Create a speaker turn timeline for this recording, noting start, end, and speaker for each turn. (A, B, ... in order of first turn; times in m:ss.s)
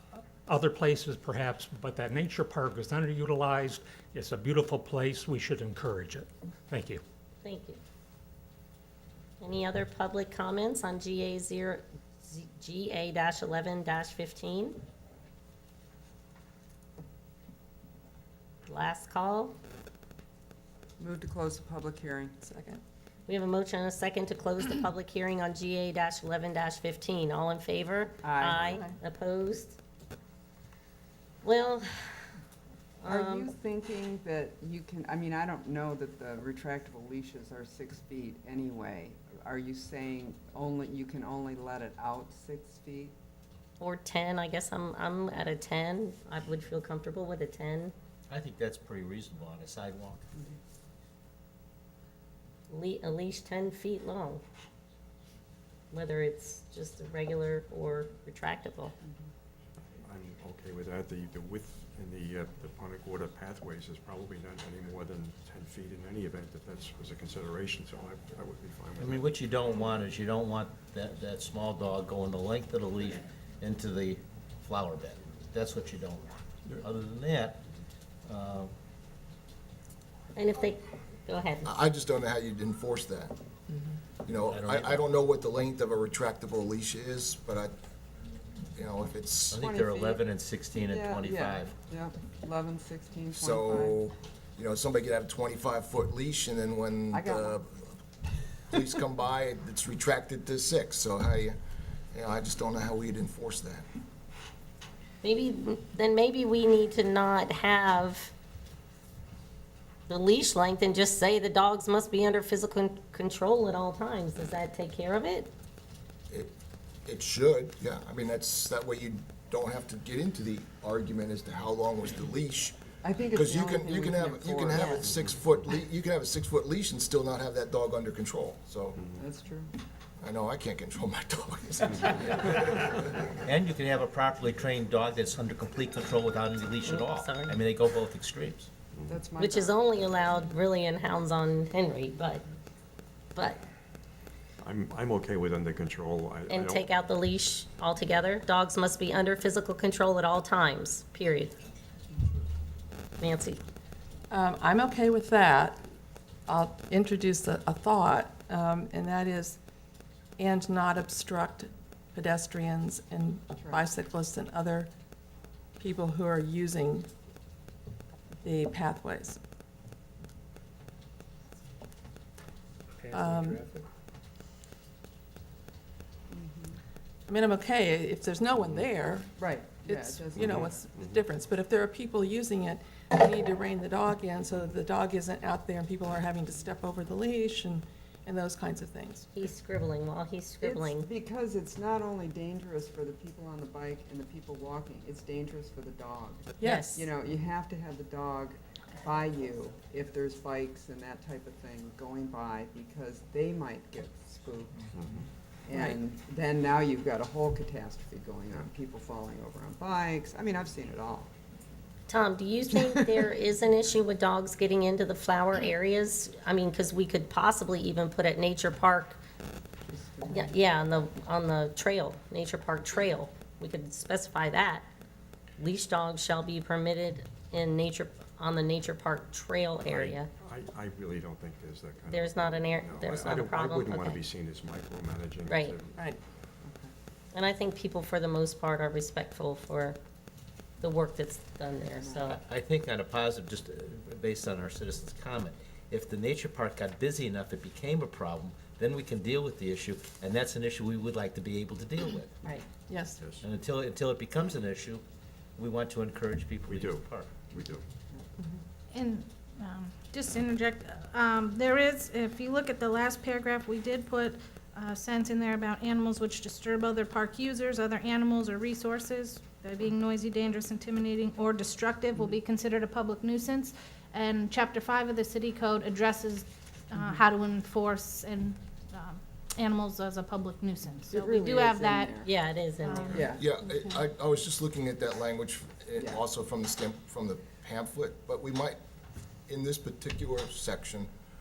0:00.5-0:07.0 A
0:07.4-0:07.8 B
0:09.4-0:14.8 B
0:18.7-0:19.6 B
0:21.0-0:22.4 C
0:22.4-0:22.8 D
0:23.3-0:29.8 B
0:28.2-0:28.8 C
0:31.4-0:32.3 B
0:33.0-0:33.5 B
0:33.0-0:43.1 C
0:43.8-0:47.9 B
0:48.3-0:50.2 E
0:52.7-0:54.4 B
0:55.9-0:59.0 B
0:59.9-1:09.4 F
1:09.0-1:17.6 E
1:18.3-1:18.7 E
1:20.4-1:21.7 B
1:21.6-1:23.3 G
1:24.2-1:27.7 G
1:24.4-1:25.0 E
1:28.8-1:29.6 G
1:29.5-1:31.8 E
1:29.6-1:34.0 C
1:33.3-1:37.9 G
1:37.1-1:37.6 C
1:38.7-1:41.6 G
1:42.1-1:43.9 G
1:45.2-1:48.3 B
1:50.1-1:55.5 B
1:57.1-2:02.8 G
2:03.0-2:05.1 C
2:03.3-2:09.0 G
2:09.0-2:09.2 F
2:09.2-2:09.7 C
2:10.2-2:13.1 G
2:13.4-2:18.7 E
2:16.8-2:17.6 B
2:18.9-2:19.2 F
2:19.1-2:19.8 C
2:19.4-2:22.4 B
2:24.6-2:26.9 F
2:26.5-2:31.6 B
2:33.2-2:33.6 B
2:34.3-2:35.8 D
2:36.5-2:39.6 D
2:40.4-2:44.9 D
2:43.6-2:43.9 C
2:45.8-2:47.1 D
2:48.4-2:49.4 D
2:53.1-2:53.7 D
2:53.3-2:53.6 A
2:56.3-2:56.8 C
2:57.3-2:59.3 D
2:59.4-3:00.8 C
2:59.8-3:09.3 D
3:00.3-3:01.2 F
3:09.3-3:11.1 B
3:10.6-3:24.9 C
3:16.6-3:17.0 D
3:16.6-3:17.0 B
3:25.0-3:25.3 F
3:25.7-3:31.3 C
3:32.1-3:39.2 B
3:39.9-3:40.6 C
3:40.3-3:44.9 B
3:45.6-3:50.3 B
3:49.8-3:56.0 F
3:52.1-3:54.2 B
3:55.5-3:55.8 B
3:56.6-3:56.9 C
3:57.3-4:00.0 B
4:00.8-4:02.4 B
4:01.9-4:02.4 C
4:02.3-4:12.4 E
4:12.9-4:13.2 D
4:13.2-4:13.5 F
4:13.4-4:15.0 E
4:15.6-4:17.3 E
4:16.7-4:17.8 F
4:18.9-4:42.3 H
4:32.2-4:32.4 C
4:41.1-4:42.3 C
4:42.2-4:43.3 B
4:42.8-4:43.3 H
4:43.1-4:43.5 C
4:43.3-4:48.8 G
4:46.0-4:46.2 C
4:49.5-4:51.1 G